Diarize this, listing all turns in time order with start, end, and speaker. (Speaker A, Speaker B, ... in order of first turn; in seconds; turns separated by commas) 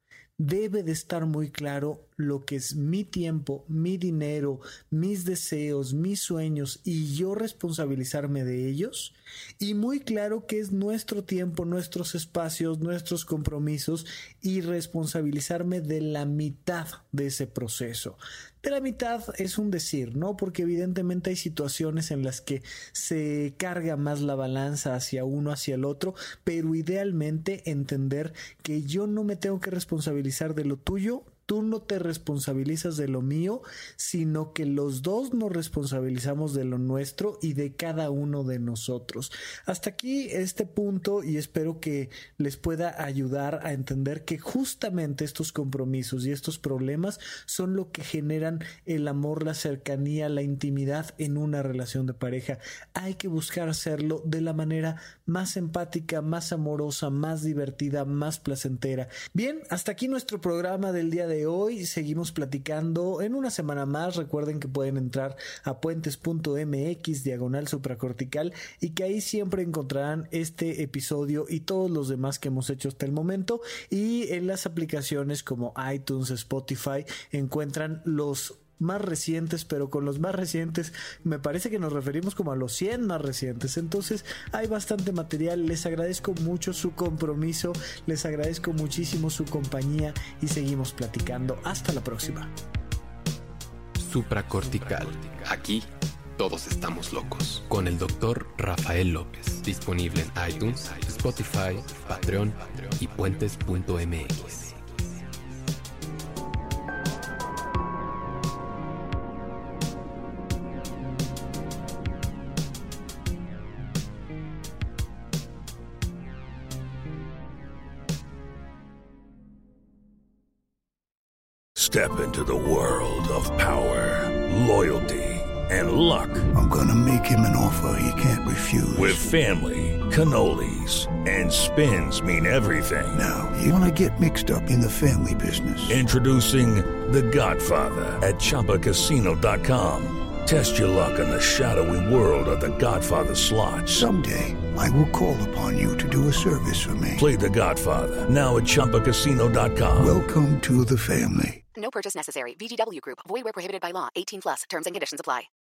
Speaker A: 0.4-92.5, Speaker B: 94.0-95.8, Speaker B: 96.4-105.0, Speaker C: 121.8-126.5, Speaker D: 126.5-129.2, Speaker C: 128.9-133.2, Speaker D: 133.1-136.0, Speaker C: 135.9-144.1, Speaker D: 143.9-147.2, Speaker C: 147.2-150.2, Speaker D: 150.0-151.6, Speaker E: 151.7-155.5